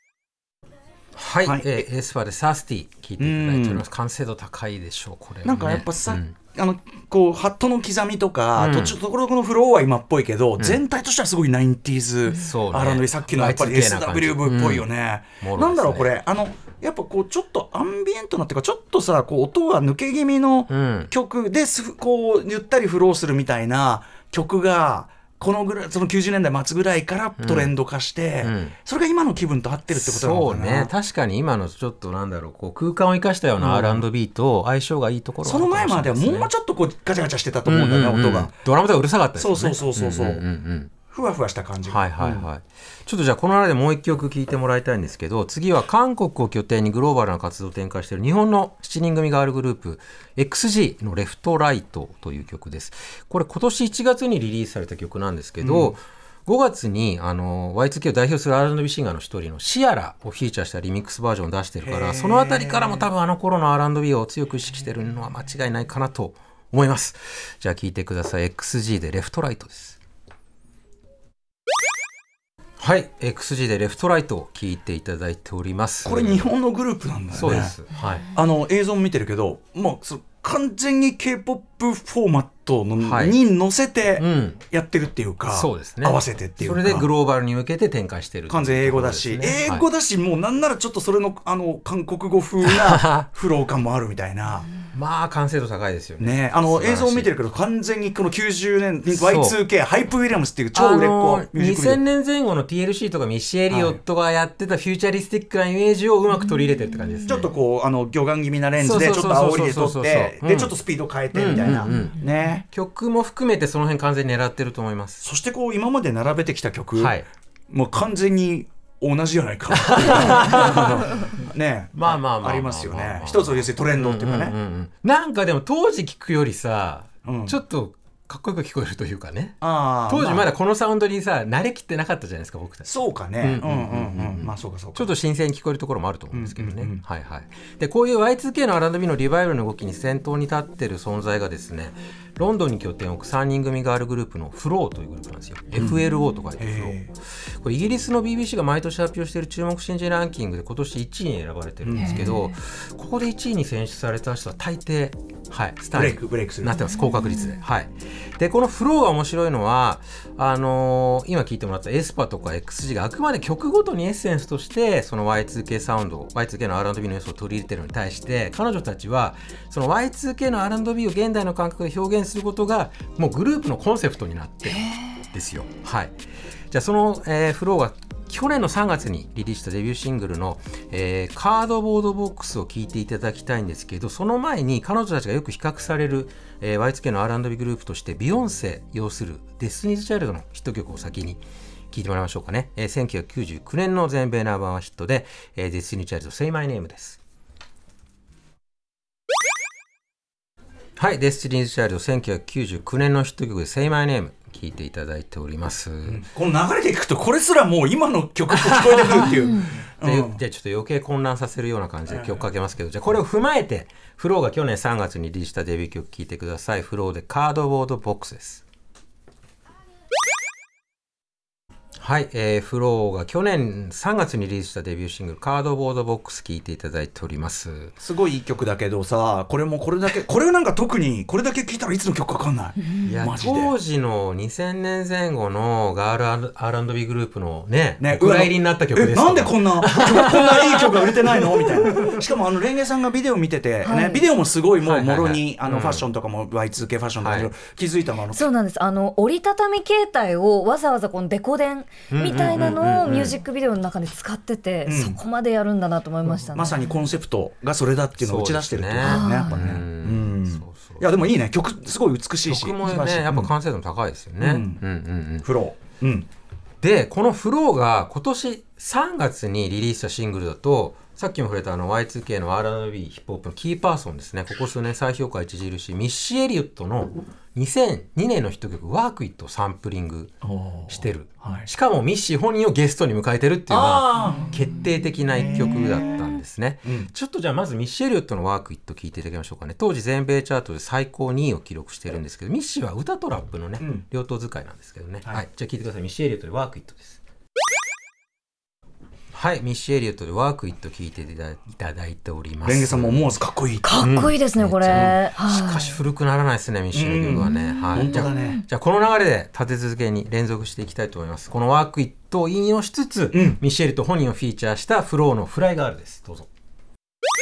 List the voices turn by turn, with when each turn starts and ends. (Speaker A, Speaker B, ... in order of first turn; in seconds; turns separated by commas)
Speaker A: 1.1-6.3, Speaker B: 1.4-1.8, Speaker B: 3.2-3.8, Speaker B: 5.4-30.9, Speaker A: 8.6-9.0, Speaker A: 12.3-14.9, Speaker A: 15.4-16.1, Speaker A: 20.7-21.1, Speaker A: 27.4-27.7, Speaker A: 28.4-28.8, Speaker A: 29.9-36.5, Speaker B: 33.6-34.1, Speaker B: 35.4-38.5, Speaker A: 37.6-40.9, Speaker B: 39.3-40.5, Speaker B: 41.1-42.5, Speaker A: 41.9-70.0, Speaker B: 55.6-55.9, Speaker B: 61.8-63.1, Speaker A: 72.8-76.5, Speaker B: 76.0-77.8, Speaker A: 77.3-78.3, Speaker B: 78.3-87.1, Speaker A: 83.0-83.4, Speaker A: 84.2-84.6, Speaker A: 85.5-89.8, Speaker B: 88.5-94.7, Speaker A: 92.6-93.2, Speaker A: 94.9-97.3, Speaker B: 96.2-102.0, Speaker A: 99.1-99.6, Speaker A: 100.7-107.5, Speaker B: 103.7-104.0, Speaker B: 107.3-112.7, Speaker A: 108.8-110.8, Speaker A: 111.3-112.2, Speaker A: 112.7-115.2, Speaker B: 115.2-124.5, Speaker A: 117.0-117.3, Speaker A: 119.7-121.4, Speaker A: 121.9-176.1, Speaker B: 127.2-127.6, Speaker B: 129.6-130.5, Speaker B: 132.8-135.1, Speaker B: 136.3-137.0, Speaker B: 146.6-147.1, Speaker B: 151.8-152.4, Speaker C: 152.0-152.3, Speaker B: 155.9-156.8, Speaker C: 174.7-175.0, Speaker A: 176.7-197.2, Speaker A: 201.0-206.2, Speaker B: 206.1-210.4, Speaker A: 208.5-218.6, Speaker B: 212.1-212.4, Speaker A: 222.0-228.0, Speaker B: 228.0-233.7, Speaker C: 232.8-233.1, Speaker A: 233.0-242.2, Speaker B: 238.0-248.5, Speaker C: 243.8-244.2, Speaker A: 244.8-246.1, Speaker A: 247.2-247.5, Speaker C: 248.3-256.8, Speaker A: 252.1-253.4, Speaker B: 254.8-255.2, Speaker B: 256.5-263.5, Speaker A: 258.2-261.3, Speaker C: 259.0-259.7, Speaker A: 262.4-265.5, Speaker B: 264.4-264.8, Speaker B: 265.4-266.3, Speaker A: 266.8-297.2, Speaker B: 280.4-281.7, Speaker B: 283.7-284.5, Speaker B: 285.4-286.2, Speaker B: 286.8-287.1, Speaker B: 293.8-294.0, Speaker A: 299.3-303.4, Speaker B: 302.6-303.9, Speaker C: 303.8-306.0, Speaker A: 304.0-316.5, Speaker B: 306.9-308.6, Speaker C: 307.5-308.6, Speaker B: 313.3-313.6